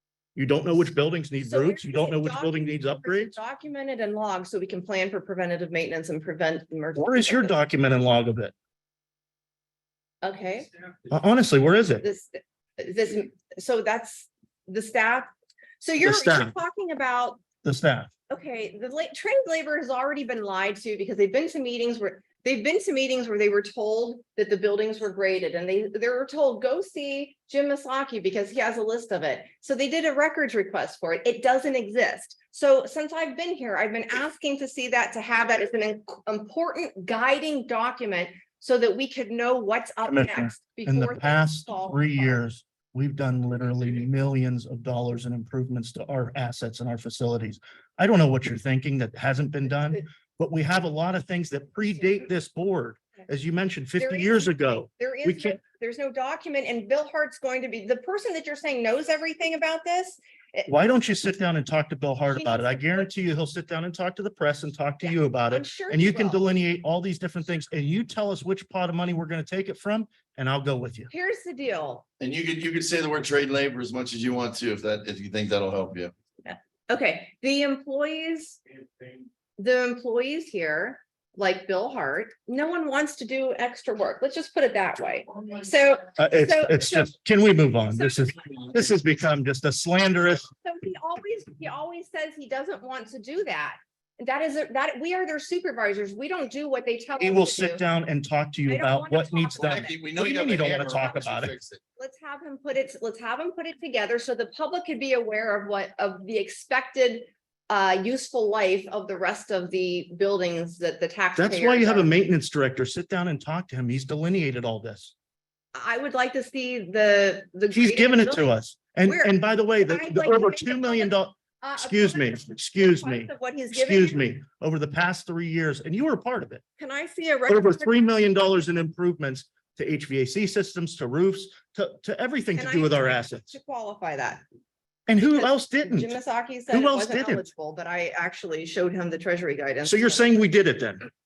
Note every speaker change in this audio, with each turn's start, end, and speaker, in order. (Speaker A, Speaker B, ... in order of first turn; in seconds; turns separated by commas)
Speaker A: 0.4-3.3, Speaker B: 1.4-7.6, Speaker A: 6.9-8.5, Speaker B: 10.2-10.7, Speaker A: 11.1-12.1, Speaker B: 12.0-15.3, Speaker B: 15.8-17.5, Speaker A: 16.0-16.6, Speaker A: 17.6-18.1, Speaker B: 18.3-42.5, Speaker A: 40.0-55.6, Speaker B: 49.7-50.0, Speaker B: 54.0-60.7, Speaker A: 60.7-71.1, Speaker B: 62.3-63.1, Speaker B: 65.0-66.4, Speaker B: 71.1-72.0, Speaker C: 72.2-76.1, Speaker B: 76.5-78.6, Speaker B: 79.6-87.2, Speaker A: 86.2-90.5, Speaker B: 87.9-88.8, Speaker B: 90.6-97.8, Speaker A: 97.2-101.5, Speaker B: 98.7-100.1, Speaker C: 99.6-101.8, Speaker B: 100.9-101.3, Speaker B: 102.0-112.2, Speaker A: 111.4-115.1, Speaker B: 115.7-118.5, Speaker A: 117.7-126.6, Speaker B: 119.0-124.3, Speaker B: 126.8-128.4, Speaker A: 127.5-133.6, Speaker B: 132.6-134.4, Speaker A: 135.1-136.2, Speaker B: 135.2-140.5, Speaker A: 136.7-137.5, Speaker A: 139.8-141.1